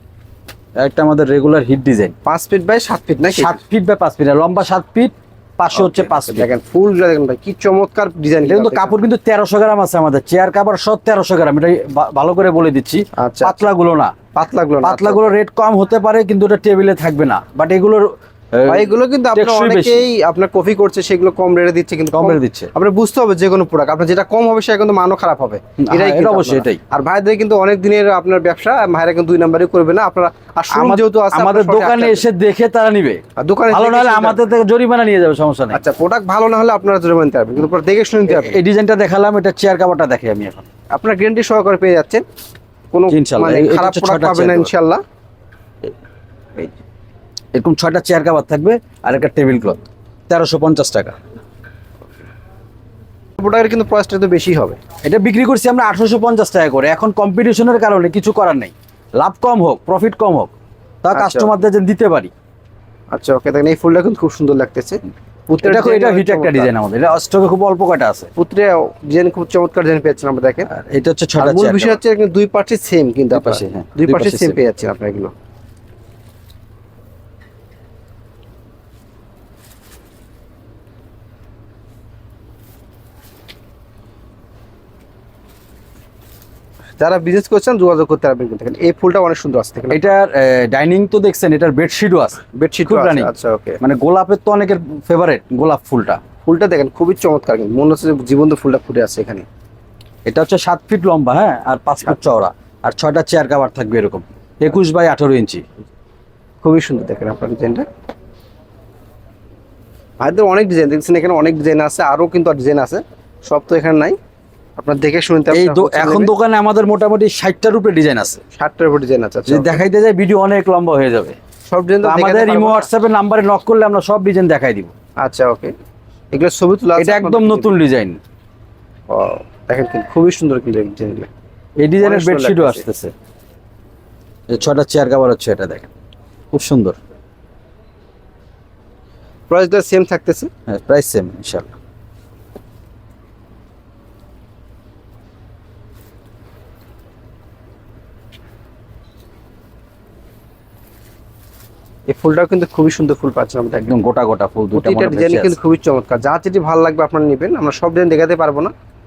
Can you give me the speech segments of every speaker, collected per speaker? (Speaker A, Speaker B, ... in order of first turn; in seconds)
Speaker A: 0.8-2.1, 3.3-6.5, 8.4-14.2, 14.8-20.1, 22.1-22.7, 25.8-26.8, 30.7-35.8, 38.3-40.7, 43.1-44.7, 47.5-51.1, 55.0-60.5, 61.0-62.3, 65.6-68.3, 70.7-72.0, 73.3-74.6, 89.9-96.2, 100.2-105.6, 115.5-118.4, 119.5-121.4, 122.0-124.9, 127.0-128.2, 131.8-133.1, 134.5-135.9, 136.5-137.0, 140.7-141.7, 153.8-155.6
Speaker B: 2.2-3.6, 5.7-9.1, 13.1-13.7, 14.3-15.3, 18.7-32.2, 33.4-34.4, 35.7-38.6, 40.9-42.2, 42.9-45.0, 53.4-54.8, 61.1-61.5, 63.1-66.7, 68.3-70.7, 71.4-75.3, 87.0-90.0, 92.5-93.8, 96.4-99.4, 106.6-107.8, 110.2-114.2, 114.8-116.3, 118.5-119.8, 121.7-122.9, 125.2-125.7, 126.3-127.8, 129.1-131.3, 132.0-132.8, 139.5-140.5, 152.1-153.9, 154.7-158.7